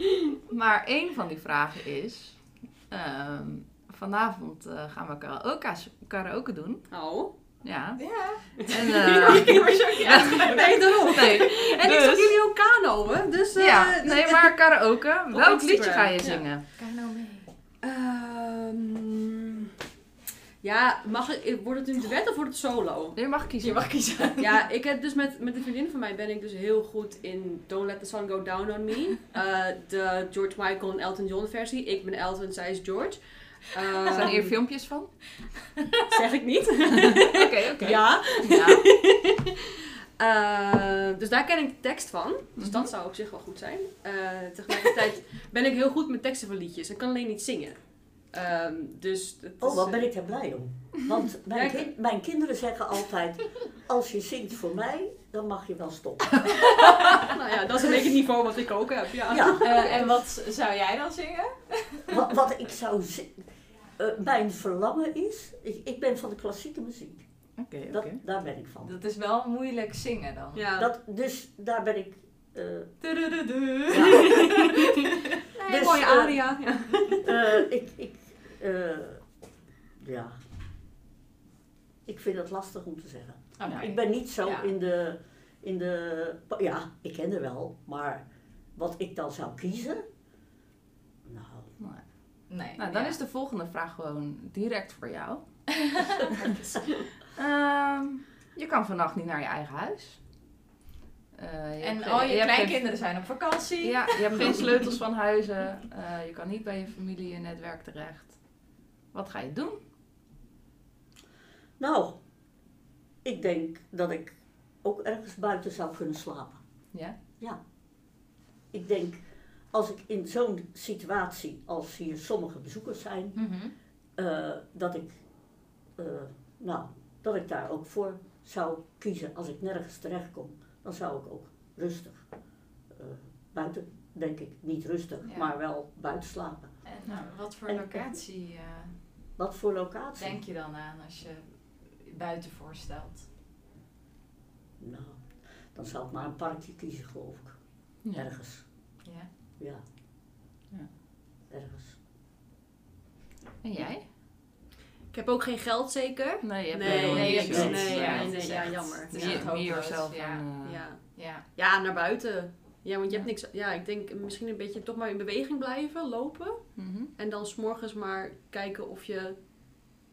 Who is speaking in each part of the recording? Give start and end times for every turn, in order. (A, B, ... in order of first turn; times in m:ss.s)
0:00.5-0:12.4 A
0:06.9-0:07.3 B
0:08.0-0:10.9 C
0:09.1-0:14.6 B
0:13.6-0:16.6 A
0:15.3-0:16.5 B
0:16.8-0:17.5 C
0:17.8-0:19.7 B
0:20.6-0:23.3 B
0:23.2-0:24.1 A
0:23.6-0:24.6 C
0:24.4-0:34.6 B
0:34.1-0:35.7 A
0:36.1-0:39.3 B
0:37.3-0:39.0 A
0:40.2-0:50.2 B
0:42.6-0:42.9 A
0:49.6-0:56.7 D
0:51.5-0:51.9 B
0:57.2-1:00.1 B
0:59.3-1:00.0 D
0:59.6-1:02.2 C
1:02.1-1:09.0 D
1:07.6-1:08.2 A
1:08.8-1:10.6 C
1:10.6-1:10.9 B
1:10.8-1:14.6 D
1:13.0-1:14.5 C
1:15.6-1:17.3 B
1:15.7-1:16.6 D
1:17.2-1:20.4 D
1:22.1-1:30.0 D
1:23.6-1:24.7 C
1:31.2-1:31.8 D
1:31.8-1:36.2 A
1:32.5-1:33.2 C
1:36.4-1:37.1 B
1:37.3-1:40.3 A
1:41.3-1:43.2 A
1:41.8-1:44.9 C
1:43.8-1:49.8 A
1:51.8-1:52.7 D
1:53.2-2:18.2 D
1:56.9-1:57.2 A
2:03.4-2:03.8 C
2:15.2-2:15.5 C
2:16.8-2:19.0 C
2:17.1-2:17.3 A
2:19.4-2:20.4 D
2:20.2-2:23.3 C
2:24.8-2:29.8 D
2:28.0-2:28.3 A
2:29.0-2:29.3 C
2:31.5-2:32.0 D
2:33.6-2:34.1 A
2:35.1-2:39.5 B
2:36.4-2:40.8 A
2:36.8-2:38.0 D
2:37.1-2:41.4 C
2:40.6-2:49.8 B
2:46.8-2:47.1 A